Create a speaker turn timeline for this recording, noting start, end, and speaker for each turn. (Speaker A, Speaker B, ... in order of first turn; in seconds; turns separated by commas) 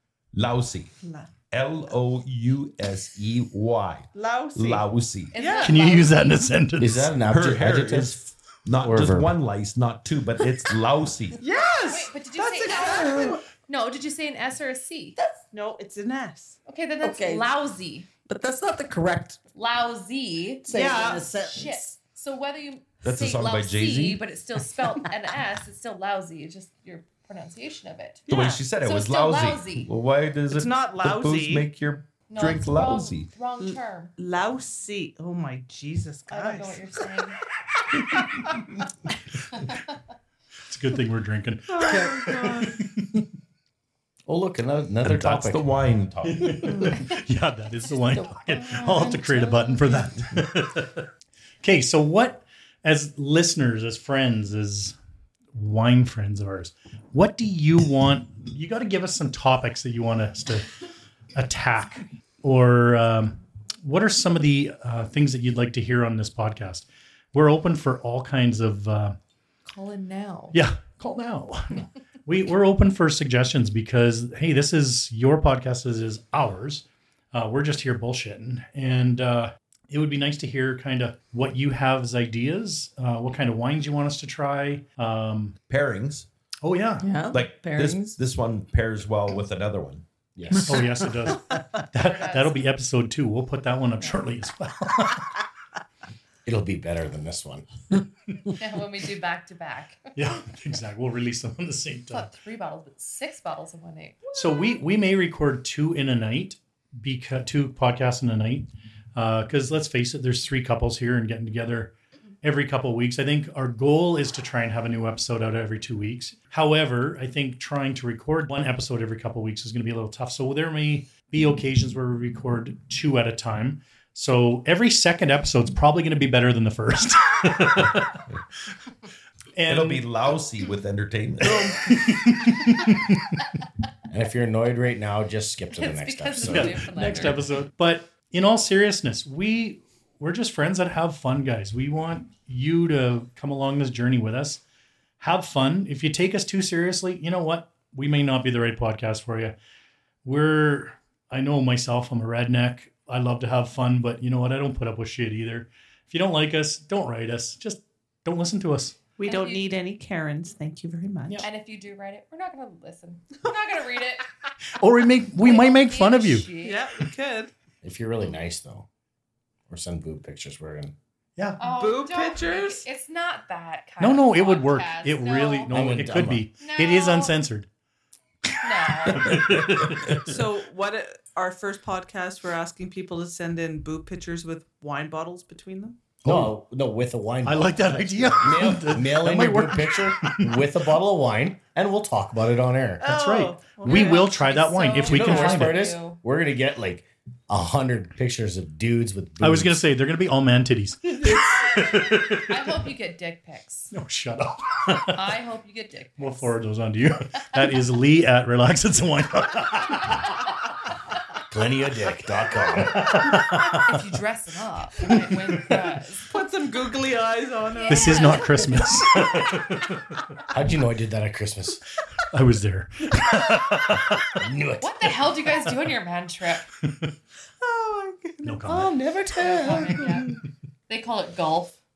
Speaker A: 0.3-0.9, Speaker B: 1.0-1.4, Speaker A: 1.5-5.3, Speaker B: 4.1-5.8, Speaker C: 5.3-6.4, Speaker D: 5.6-7.1, Speaker E: 6.8-8.2, Speaker A: 7.2-11.4, Speaker E: 8.8-9.3, Speaker B: 11.4-13.4, Speaker C: 11.8-15.2, Speaker F: 12.7-13.4, Speaker B: 15.5-16.6, Speaker C: 16.7-18.1, Speaker F: 17.0-17.5, Speaker F: 18.2-19.4, Speaker C: 19.5-28.3, Speaker F: 20.6-21.9, Speaker B: 20.7-21.3, Speaker A: 23.0-24.2, Speaker B: 28.3-28.6, Speaker A: 28.3-33.3, Speaker C: 28.8-29.9, Speaker B: 30.5-31.7, Speaker C: 32.3-34.1, Speaker B: 33.6-36.8, Speaker C: 36.3-37.4, Speaker D: 40.6-43.2, Speaker B: 41.7-42.8, Speaker F: 41.8-42.2, Speaker E: 44.2-45.6, Speaker A: 45.0-46.9, Speaker D: 46.2-51.0, Speaker F: 48.1-49.5, Speaker C: 48.8-49.2, Speaker D: 51.6-54.9, Speaker D: 55.5-60.7, Speaker D: 61.3-69.2, Speaker C: 69.7-70.5, Speaker D: 70.5-85.5, Speaker A: 85.7-86.3, Speaker D: 86.6-87.1, Speaker F: 87.0-88.2, Speaker A: 87.3-90.0, Speaker E: 90.3-91.1, Speaker D: 90.5-95.3, Speaker C: 91.9-92.7, Speaker E: 96.4-97.7, Speaker C: 98.5-100.0, Speaker D: 100.1-102.3, Speaker C: 102.1-104.4, Speaker D: 104.3-128.2, Speaker D: 129.6-130.1, Speaker A: 129.7-132.0, Speaker D: 131.4-133.4, Speaker E: 134.1-136.8, Speaker C: 135.8-137.4, Speaker D: 136.4-144.6, Speaker D: 145.2-149.5, Speaker D: 150.2-158.9, Speaker B: 159.2-161.4, Speaker C: 159.2-159.8, Speaker C: 161.4-164.3, Speaker D: 164.7-166.5, Speaker C: 165.4-166.8, Speaker B: 166.6-167.5, Speaker E: 167.8-168.9, Speaker E: 169.7-170.9, Speaker C: 171.6-175.7, Speaker B: 171.6-172.8, Speaker D: 174.0-177.7, Speaker E: 175.7-176.5, Speaker C: 176.6-177.4, Speaker C: 178.6-179.3, Speaker D: 178.9-180.3, Speaker A: 179.1-180.3, Speaker B: 180.2-186.0, Speaker E: 186.2-193.1, Speaker D: 187.4-190.6, Speaker B: 193.0-194.4, Speaker D: 193.1-195.9, Speaker C: 193.8-196.2, Speaker E: 195.1-199.8, Speaker D: 199.4-202.8, Speaker C: 201.6-203.9, Speaker D: 203.9-205.2, Speaker C: 205.1-206.5, Speaker D: 206.2-210.2, Speaker E: 211.5-213.2, Speaker D: 212.9-214.0, Speaker C: 213.1-216.3, Speaker D: 215.1-215.8, Speaker B: 216.3-218.7, Speaker C: 217.7-218.8, Speaker D: 217.9-220.2, Speaker E: 220.5-221.8, Speaker D: 222.3-224.4, Speaker E: 224.3-225.2, Speaker C: 224.8-226.6, Speaker D: 226.8-227.1, Speaker B: 227.6-228.6, Speaker D: 228.4-229.0, Speaker F: 228.7-230.2, Speaker C: 229.3-231.8, Speaker B: 229.6-230.3